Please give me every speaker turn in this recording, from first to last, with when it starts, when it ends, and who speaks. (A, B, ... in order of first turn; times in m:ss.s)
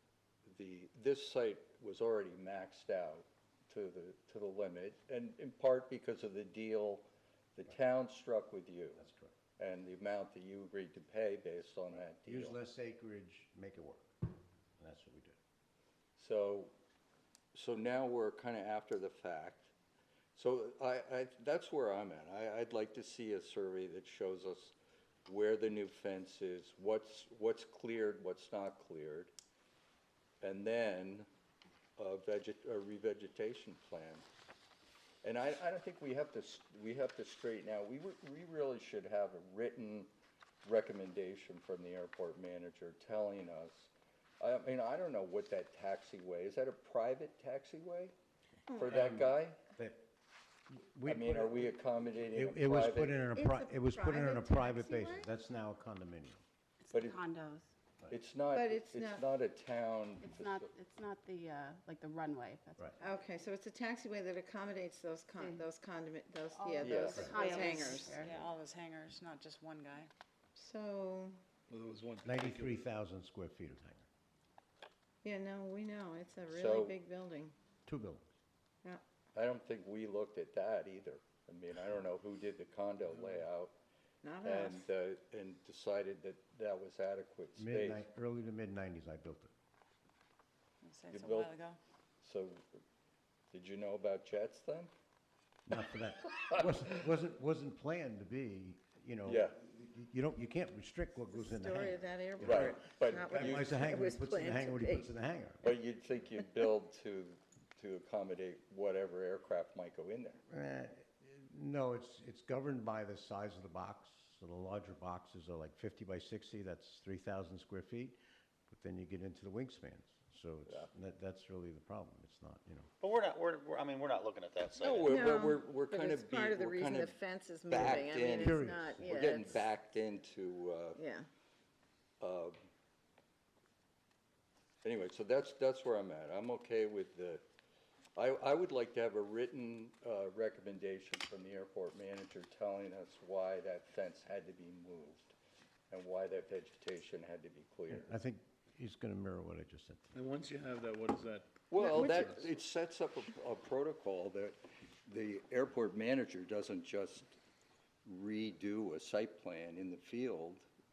0:00.4-0:09.0 A
0:09.0-0:09.3 B
0:09.6-0:12.6 A
0:12.2-0:14.2 B
0:14.8-0:15.4 B
0:16.2-0:16.7 A
0:17.5-0:19.7 A
0:20.3-0:29.3 A
0:30.4-0:31.3 A
0:32.0-0:34.2 A
0:35.2-0:40.1 A
0:40.6-0:48.1 A
0:48.8-0:49.6 A
0:49.8-0:50.0 B
0:50.7-0:51.7 B
0:51.0-0:53.2 A
0:52.3-0:56.4 B
0:53.3-0:55.3 C
0:56.8-0:57.7 D
0:56.9-0:57.2 A
0:58.1-1:00.7 A
0:58.5-0:59.2 C
1:00.2-1:03.2 D
1:03.0-1:08.3 C
1:05.4-1:05.7 D
1:06.5-1:08.5 D
1:06.8-1:07.3 A
1:07.3-1:10.1 E
1:10.5-1:11.4 C
1:11.7-1:12.8 F
1:12.2-1:14.0 B
1:15.2-1:17.5 C
1:16.5-1:17.0 A
1:17.8-1:18.3 B
1:19.3-1:23.7 A
1:24.2-1:24.9 C
1:24.4-1:28.0 A
1:27.6-1:29.5 B
1:30.8-1:31.8 E
1:31.1-1:31.5 A
1:32.2-1:32.6 A
1:33.5-1:34.9 A
1:35.7-1:45.8 B
1:39.2-1:39.6 A
1:41.3-1:45.1 C
1:42.4-1:43.8 A
1:45.6-1:50.4 A
1:50.5-2:02.9 B
2:03.0-2:05.2 G
2:04.8-2:07.2 A
2:05.0-2:09.5 C
2:07.7-2:11.0 A
2:07.7-2:09.4 B
2:11.0-2:11.2 C
2:12.2-2:12.6 A
2:14.8-2:17.4 A
2:18.2-2:25.3 A
2:25.9-2:28.1 A
2:27.9-2:30.2 B
2:30.1-2:32.4 F
2:31.7-2:37.4 A
2:38.0-2:40.6 A